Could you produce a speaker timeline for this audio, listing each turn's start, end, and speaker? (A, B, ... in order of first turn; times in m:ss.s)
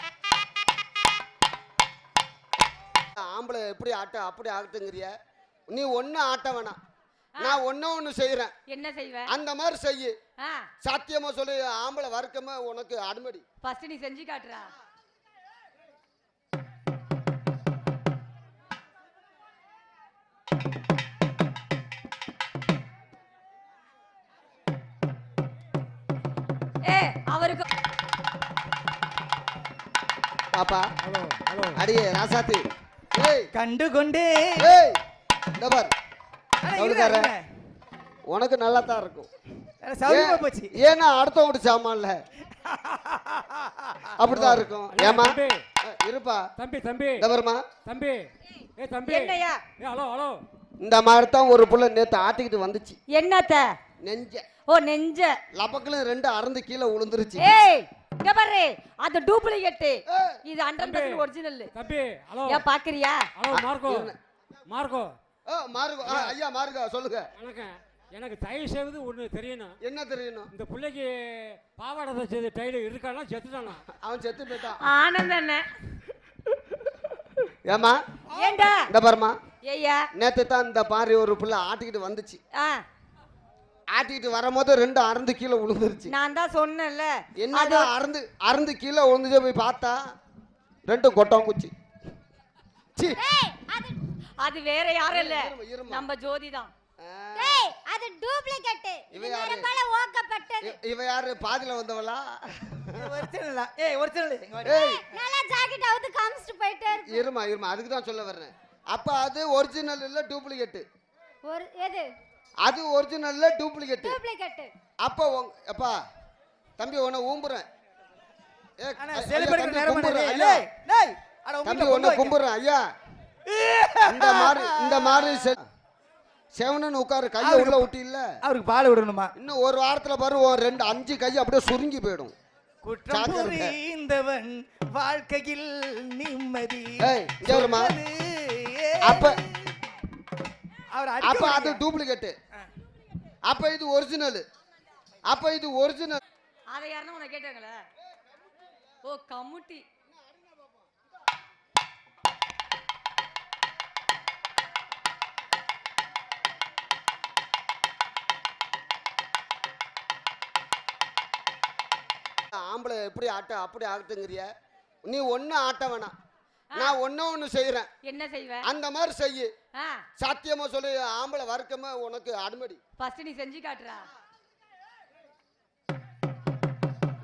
0:03.2-0:05.1 A
0:05.7-0:06.8 A
0:07.4-0:08.5 A
0:08.7-0:09.3 B
0:09.3-0:10.1 A
0:10.4-0:10.7 B
0:10.8-0:13.4 A
0:13.6-0:14.7 B
0:26.9-0:27.6 B
0:30.5-0:30.9 A
0:31.0-0:31.8 C
0:31.8-0:33.5 A
0:33.5-0:34.7 D
0:34.6-0:35.0 A
0:35.6-0:35.9 A
0:36.6-0:37.4 D
0:36.8-0:37.3 A
0:38.3-0:39.3 A
0:39.8-0:40.7 D
0:40.1-0:42.2 A
0:42.6-0:44.1 D
0:44.2-0:46.4 A
0:44.3-0:45.6 C
0:46.6-0:47.2 C
0:47.2-0:47.6 A
0:47.8-0:48.2 C
0:48.8-0:50.4 C
0:49.1-0:49.6 B
0:50.8-0:53.0 A
0:53.1-0:53.7 B
0:54.0-0:54.4 A
0:54.7-0:55.3 B
0:55.6-0:57.5 A
0:57.4-1:01.7 B
1:00.1-1:00.4 A
1:00.8-1:01.2 C
1:01.7-1:02.7 C
1:02.5-1:03.2 B
1:03.4-1:04.0 C
1:03.5-1:04.2 A
1:04.7-1:05.1 C
1:05.5-1:07.3 A
1:06.1-1:06.3 C
1:07.4-1:09.7 C
1:09.8-1:10.5 A
1:10.5-1:13.8 C
1:13.9-1:14.8 A
1:14.8-1:15.7 B
1:17.7-1:18.0 A
1:18.4-1:18.7 D
1:18.4-1:18.9 B
1:18.9-1:19.4 A
1:19.6-1:20.0 B
1:20.2-1:22.4 A
1:22.6-1:22.8 B
1:23.9-1:26.1 A
1:26.1-1:27.9 B
1:27.4-1:30.0 A
1:30.9-1:31.7 A
1:33.0-1:33.2 A
1:33.2-1:34.0 E
1:34.4-1:36.7 B
1:35.1-1:36.1 A
1:37.0-1:37.7 A
1:37.4-1:40.7 E
1:39.1-1:39.7 A
1:40.6-1:43.2 A
1:43.0-1:44.8 D
1:44.6-1:45.0 A
1:44.8-1:47.2 E
1:47.0-1:50.8 A
1:51.4-1:52.1 E
1:52.6-1:54.2 A
1:54.0-1:54.7 E
1:55.0-1:56.0 A
1:56.8-1:57.7 A
1:58.8-2:00.7 A
1:59.0-2:02.4 D
2:01.6-2:02.8 A
2:03.5-2:05.5 D
2:04.1-2:05.6 A
2:06.6-2:08.3 A
2:07.4-2:07.9 D
2:08.4-2:09.3 D
2:09.4-2:12.3 A
2:12.8-2:19.8 D
2:13.1-2:13.8 A
2:17.0-2:18.0 A
2:19.0-2:19.4 A
2:20.9-2:21.8 D
2:21.2-2:22.4 A
2:23.5-2:24.4 A
2:25.3-2:26.2 A
2:26.7-2:27.8 B
2:29.0-2:29.8 B
2:42.5-2:44.5 A
2:45.0-2:46.2 A
2:46.8-2:47.9 A
2:48.0-2:48.7 B
2:48.7-2:49.5 A
2:49.8-2:50.0 B
2:50.2-2:52.8 A
2:53.0-2:54.1 B